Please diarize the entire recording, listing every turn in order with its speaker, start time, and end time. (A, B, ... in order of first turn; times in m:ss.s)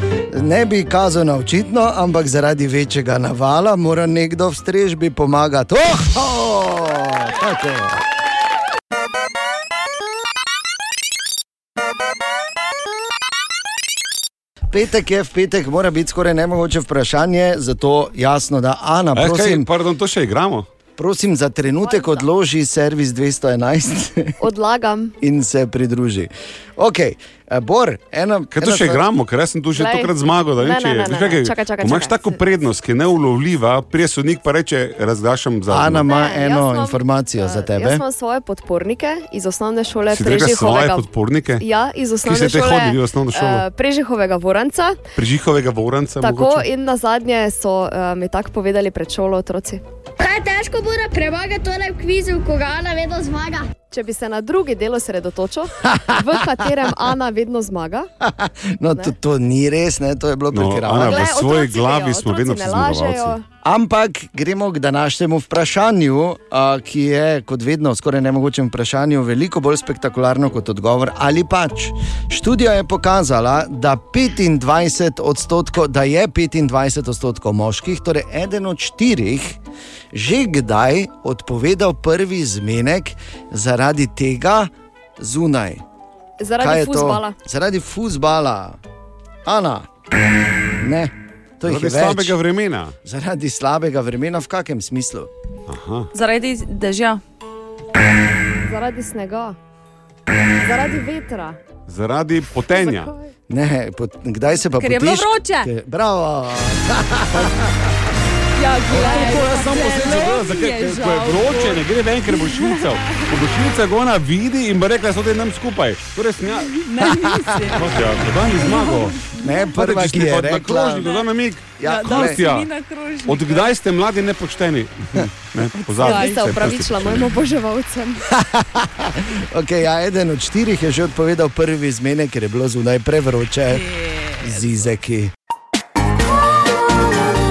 0:00.3-0:08.0 A
0:14.7-0:19.7 A
0:19.1-0:20.7 B
0:21.0-0:24.4 A
0:21.9-0:22.2 C
0:24.4-0:25.1 C
0:25.2-0:29.0 A
0:28.5-0:36.1 B
0:29.7-0:32.4 C
0:35.7-0:38.0 A
0:36.0-0:41.1 C
0:40.1-0:41.6 B
0:41.6-0:45.0 C
0:42.2-0:43.7 B
0:45.1-0:46.7 B
0:46.2-0:49.8 C
0:50.2-0:53.7 D
0:53.9-0:58.1 C
0:58.4-1:01.3 A
1:00.5-1:03.4 B
1:00.9-1:03.4 C
1:03.6-1:19.6 A
1:20.1-1:25.8 A
1:26.4-1:27.4 C
1:26.6-1:28.8 A
1:29.4-1:29.8 A
1:30.8-1:32.4 A
1:31.6-1:33.0 B
1:33.0-1:35.3 A
1:35.7-1:36.1 B
1:36.1-1:37.2 E
1:38.6-1:39.6 C
1:40.6-1:41.6 C
1:41.9-1:43.1 B
1:42.7-1:43.3 C
1:43.5-1:47.7 A
1:44.7-1:45.7 E
1:48.5-1:53.4 E
1:48.9-1:49.6 C
1:49.1-1:56.7 B
1:56.5-1:59.7 E
1:57.7-1:59.2 B
1:59.4-2:01.1 A
1:59.7-2:02.7 B
2:00.8-2:01.2 E
2:01.8-2:02.4 A
2:01.8-2:03.7 E
2:03.2-2:07.4 B
2:05.7-2:06.7 E
2:06.0-2:08.3 C
2:08.4-2:13.9 A
2:13.8-2:14.4 E
2:14.4-2:15.3 A